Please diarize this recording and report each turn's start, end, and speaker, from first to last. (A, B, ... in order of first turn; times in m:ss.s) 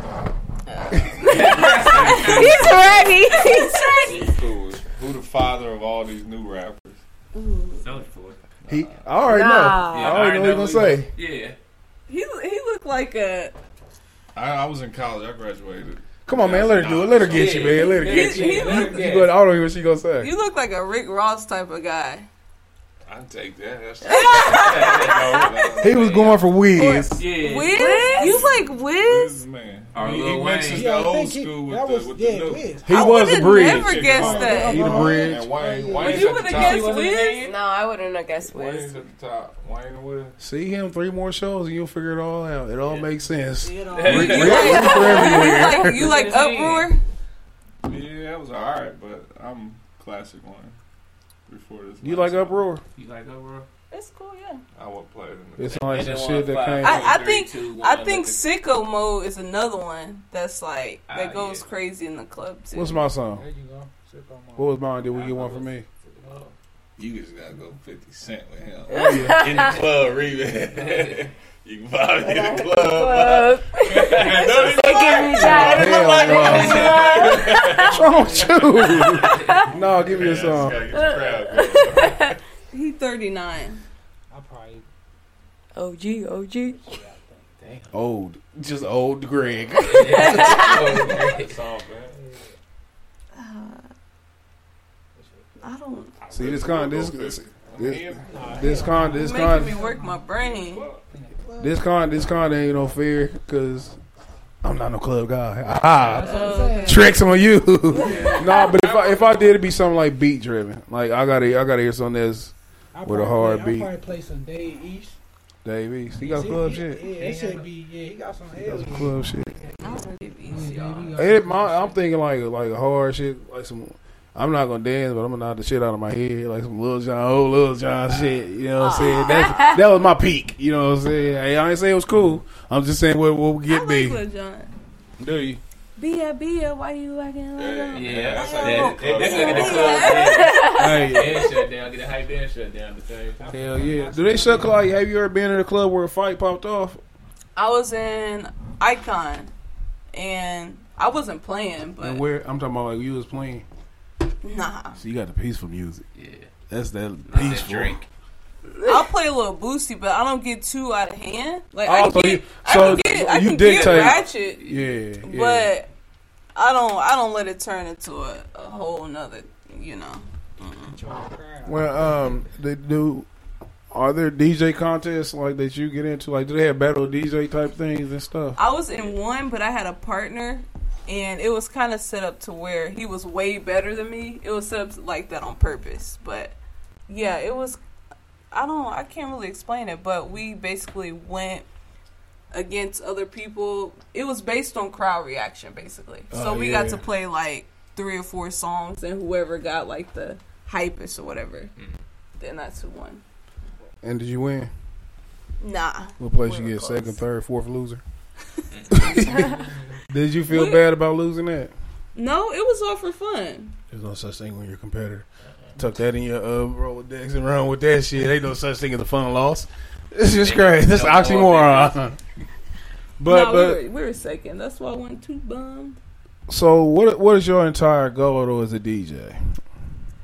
0:00.7-0:02.4 A
0:01.2-0:03.5 B
0:01.2-0:04.3 C
0:01.4-0:03.1 D
0:04.0-0:07.0 D
0:07.3-0:07.8 A
0:07.8-0:08.4 B
0:08.7-0:11.1 E
0:09.2-0:10.2 C
0:09.9-0:11.6 B
0:12.1-0:13.5 A
0:14.4-0:18.5 D
0:16.2-0:20.3 E
0:17.3-0:19.3 B
0:17.8-0:19.2 A
0:20.2-0:22.2 A
0:23.1-0:26.4 D
0:24.0-0:25.5 A
0:24.4-0:26.3 B
0:25.8-0:27.3 E
0:27.1-0:28.2 B
0:27.4-0:29.3 A
0:27.7-0:28.4 C
0:28.2-0:37.5 D
0:29.9-0:30.9 B
0:30.6-0:33.0 F
0:32.8-0:35.5 E
0:32.9-0:35.0 A
0:34.1-0:36.5 F
0:35.9-0:37.5 B
0:36.0-0:37.4 A
0:37.4-0:38.9 C
0:38.4-0:40.4 D
0:40.4-0:46.2 E
0:43.6-0:45.1 F
0:43.9-0:46.9 B
0:44.1-0:47.0 A
0:47.8-0:50.7 D
0:51.5-0:52.6 D
0:52.0-0:52.8 E
0:52.9-0:53.7 B
0:53.9-0:54.6 A
0:54.8-0:56.4 D
0:55.6-0:57.2 E
0:55.8-0:58.5 B
0:56.8-1:03.1 A
1:01.1-1:01.6 B
1:02.7-1:03.4 E
1:03.3-1:04.9 F
1:04.6-1:05.8 E
1:05.1-1:06.5 B
1:07.0-1:18.3 D
1:08.9-1:09.8 C
1:08.9-1:09.4 E
1:10.8-1:11.2 B
1:12.2-1:18.0 C
1:15.4-1:15.8 B
1:15.5-1:17.0 E
1:16.4-1:17.3 B
1:17.7-1:20.8 E
1:18.8-1:19.6 C
1:19.7-1:20.7 F
1:20.0-1:22.4 D
1:20.9-1:22.3 C
1:22.7-1:23.8 A
1:24.3-1:24.8 F
1:25.8-1:27.0 C
1:26.6-1:27.6 F
1:27.6-1:27.9 B
1:27.9-1:30.7 E
1:29.8-1:31.6 B
1:30.0-1:31.1 C
1:30.4-1:32.2 D
1:32.1-1:32.5 F
1:33.3-1:33.9 A
1:35.2-1:35.6 F
1:35.6-1:36.2 A
1:36.2-1:38.8 D
1:36.3-1:39.8 E
1:38.3-1:40.4 F
1:39.1-1:40.9 A
1:40.4-1:41.0 D
1:41.1-1:41.8 F
1:41.6-1:44.0 E
1:44.6-1:53.9 E
1:46.0-1:47.2 F
1:46.2-1:47.2 A
1:47.9-1:48.5 F
1:48.0-1:49.4 B
1:52.9-1:55.2 F
1:55.6-1:57.1 E
1:56.1-2:02.0 F
1:57.1-1:57.7 B
1:58.6-1:59.6 E
1:59.8-2:01.2 A
2:01.2-2:14.2 E
2:08.8-2:09.6 A
2:09.2-2:09.7 C
2:13.7-2:14.7 A
2:15.2-2:15.6 E
2:16.0-2:21.5 A
2:17.5-2:20.3 D
2:17.9-2:23.4 B
2:20.3-2:20.8 C
2:20.7-2:21.5 E
2:23.4-2:24.9 F
2:23.5-2:27.0 E
2:27.6-2:29.5 A
2:30.1-2:32.2 A
2:32.0-2:33.6 E
2:34.4-2:35.0 A
2:35.0-2:36.0 E
2:36.2-2:36.5 B
2:36.7-2:38.0 E
2:37.2-2:38.0 B
2:38.8-2:39.0 C
2:38.8-2:44.6 A
2:41.8-2:45.7 E
2:42.7-2:44.9 B
2:45.2-2:45.9 A
2:46.5-2:51.0 A
2:50.8-2:52.4 F
2:51.6-2:53.3 E
2:53.9-2:58.6 E
2:58.6-3:06.6 A
3:07.1-3:07.8 A
3:08.5-3:11.6 A
3:12.5-3:21.7 A
3:16.3-3:17.0 E
3:22.4-3:23.2 A
3:24.0-3:24.7 E
3:25.6-3:27.2 A
3:26.2-3:28.0 E
3:28.7-3:29.0 B
3:28.9-3:29.5 E
3:29.2-3:29.6 A
3:29.4-3:29.7 F
3:30.1-3:31.7 E
3:30.5-3:30.9 A
3:32.1-3:33.8 A
3:33.9-3:35.2 E
3:35.8-3:42.2 E
3:40.4-3:42.0 B
3:43.2-3:43.8 E
3:43.2-3:46.0 A
3:46.5-3:49.6 E